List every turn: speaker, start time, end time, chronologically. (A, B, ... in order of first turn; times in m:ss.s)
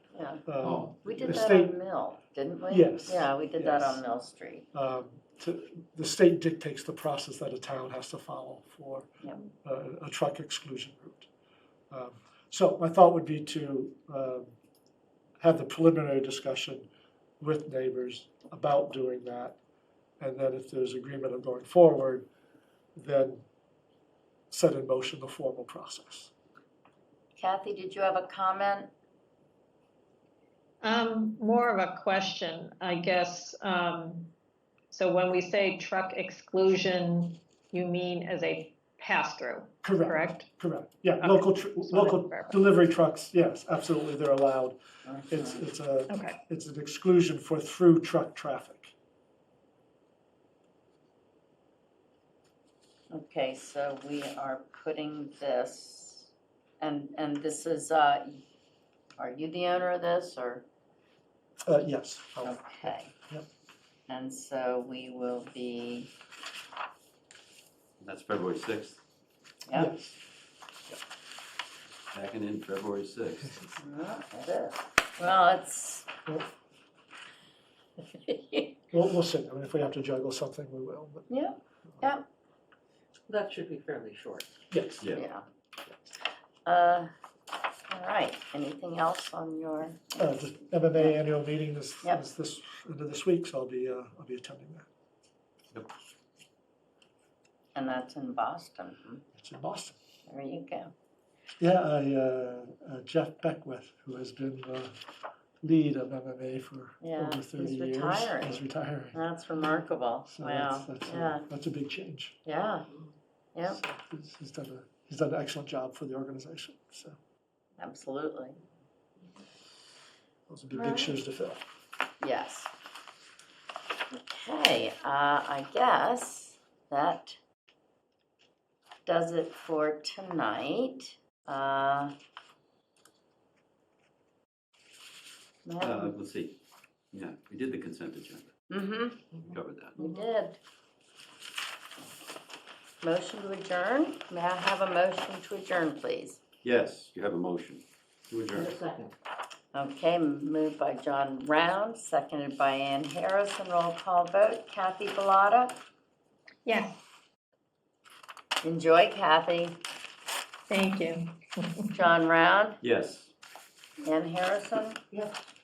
0:00.1-0:00.4 A
0:00.5-0:01.8 B
0:00.6-0:01.4 C
0:01.0-0:04.7 A
0:02.7-0:04.0 B
0:04.7-0:09.1 B
0:09.6-0:11.3 B
0:11.9-0:14.5 B
0:15.4-0:16.9 B
0:17.4-0:19.6 B
0:20.2-0:22.3 B
0:23.0-0:23.4 B
0:24.5-0:26.3 B
0:27.4-0:28.9 A
0:30.8-0:34.3 D
0:34.9-0:40.5 D
0:39.8-0:44.8 B
0:41.2-0:42.6 D
0:45.0-0:45.6 A
0:45.3-0:48.9 B
0:46.1-0:46.4 D
0:53.1-0:58.4 A
0:59.2-1:00.6 A
1:01.7-1:03.5 B
1:02.4-1:03.1 A
1:04.1-1:06.1 A
1:08.0-1:09.0 C
1:09.7-1:09.9 A
1:09.7-1:10.2 B
1:12.1-1:13.6 C
1:13.8-1:16.1 A
1:18.1-1:18.8 A
1:18.9-1:21.3 B
1:21.3-1:22.3 A
1:23.3-1:24.4 E
1:24.7-1:25.1 B
1:25.0-1:25.3 C
1:25.1-1:25.5 A
1:26.7-1:27.1 A
1:27.9-1:31.2 A
1:30.2-1:34.9 B
1:37.8-1:39.2 A
1:39.3-1:40.0 B
1:40.3-1:40.9 A
1:41.6-1:45.0 B
1:45.6-1:49.2 B
1:47.0-1:51.4 A
1:50.3-1:52.4 B
1:52.4-1:52.9 A
1:53.6-1:57.2 B
1:57.8-1:58.6 A
2:00.5-2:01.6 B
2:00.7-2:01.2 A
2:02.2-2:02.7 A
2:04.1-2:07.4 A
2:09.1-2:12.1 A
2:15.6-2:16.2 A
2:15.8-2:16.6 C
2:17.1-2:18.5 C
2:18.7-2:19.4 A
2:19.4-2:20.0 C
2:20.0-2:20.6 A
2:20.0-2:20.2 E
2:23.0-2:26.4 A
2:26.6-2:28.7 C
2:28.5-2:29.2 E
2:29.7-2:35.8 A
2:36.6-2:37.0 D
2:38.6-2:39.8 A
2:40.7-2:42.0 D
2:41.9-2:42.8 A
2:42.8-2:43.3 C
2:44.0-2:45.0 A